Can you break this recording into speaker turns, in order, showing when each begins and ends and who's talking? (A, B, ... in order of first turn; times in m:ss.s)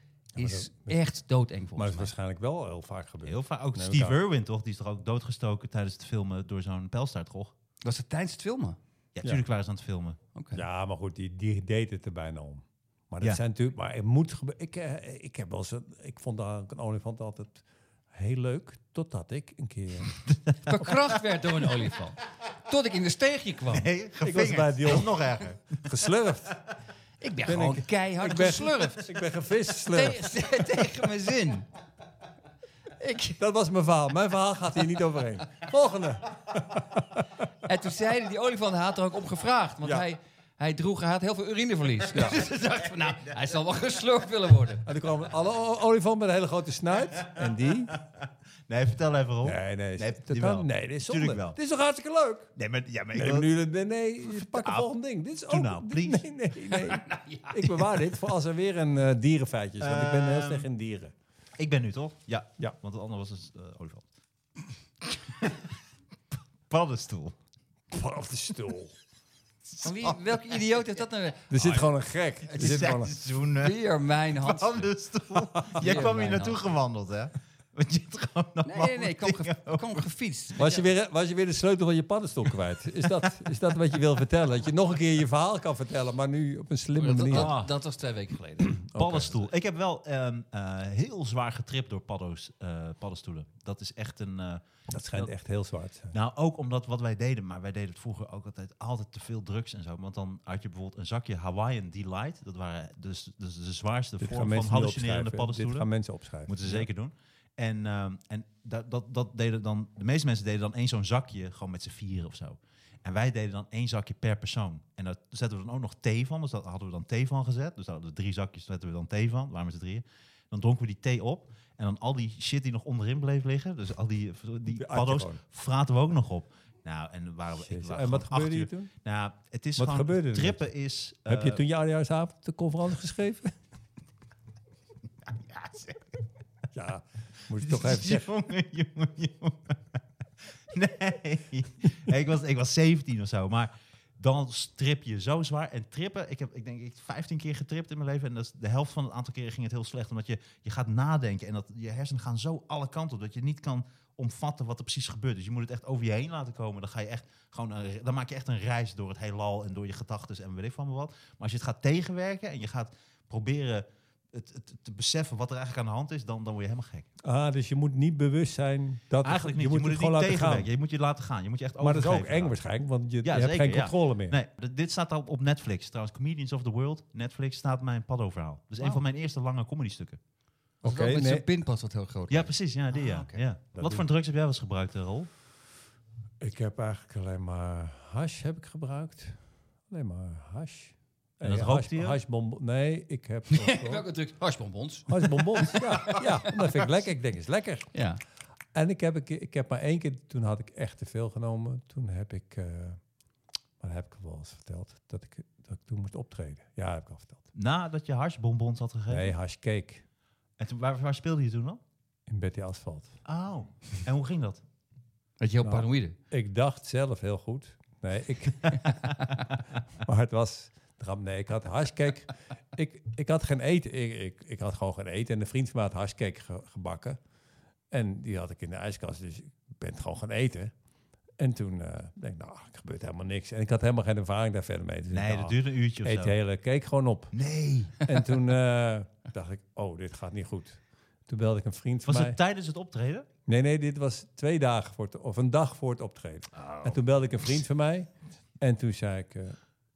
0:00.4-0:01.0 A
0:00.4-0:02.1 B
0:01.8-0:04.2 A
0:03.2-0:07.5 C
0:07.8-0:08.8 B
0:09.2-0:10.2 C
0:10.3-0:10.6 B
0:10.5-0:20.1 A
0:20.6-0:23.9 B
0:23.7-0:25.8 C
0:24.2-0:26.6 A
0:27.2-0:29.1 B
0:27.4-0:30.4 A
0:29.8-0:31.7 B
0:33.0-0:33.4 B
0:33.4-0:37.4 A
0:37.6-0:44.8 B
0:42.2-0:43.4 C
0:44.8-0:47.9 A
0:48.7-0:51.6 C
0:49.4-0:52.5 A
0:52.6-0:53.5 C
0:53.1-1:01.1 A
0:54.2-0:54.9 C
0:55.5-0:56.2 C
0:57.0-0:57.5 B
0:59.8-1:00.7 C
1:01.6-1:04.1 C
1:06.7-1:07.3 C
1:07.9-1:08.9 A
1:09.8-1:10.2 C
1:09.8-1:11.5 B
1:11.5-1:13.1 A
1:11.6-1:11.9 C
1:12.5-1:14.9 B
1:12.5-1:13.8 C
1:14.3-1:20.0 C
1:15.5-1:15.9 A
1:15.8-1:16.6 B
1:18.6-1:20.8 B
1:20.6-1:27.5 A
1:27.0-1:28.8 B
1:27.3-1:27.7 C
1:28.7-1:29.4 A
1:28.9-1:35.3 C
1:34.9-1:36.2 A
1:36.1-1:45.9 C
1:44.2-1:46.9 A
1:46.4-2:11.6 C
2:04.7-2:05.4 A
2:07.6-2:08.9 A
2:09.8-2:10.6 A
2:11.3-2:13.5 A
2:15.3-2:16.1 C
2:16.7-2:18.3 A
2:17.6-2:19.8 C
2:20.7-2:47.1 C
2:47.2-2:50.7 A
2:49.2-2:52.6 C
2:51.8-2:54.4 A
2:53.2-3:00.2 C
3:00.8-3:01.5 A
3:00.8-3:03.4 B
3:02.3-3:05.3 C
3:03.8-3:04.0 A
3:06.4-3:14.0 A
3:11.4-3:12.2 C
3:13.5-3:16.7 B
3:15.1-3:17.9 A
3:17.9-3:18.2 B
3:18.7-3:23.0 A
3:23.8-3:27.5 A
3:27.5-3:29.3 C
3:29.1-3:30.0 A
3:30.6-3:31.8 C
3:32.3-3:33.1 A
3:33.2-3:34.6 C
3:35.4-3:36.2 B
3:35.6-3:39.0 A
3:40.0-3:47.2 A
3:47.9-3:50.7 A
3:51.4-3:57.3 A
3:55.1-3:56.4 C
3:57.3-3:58.0 C
3:58.0-4:02.4 A
4:02.0-4:03.3 C
4:03.5-4:09.6 A
4:06.6-4:07.0 C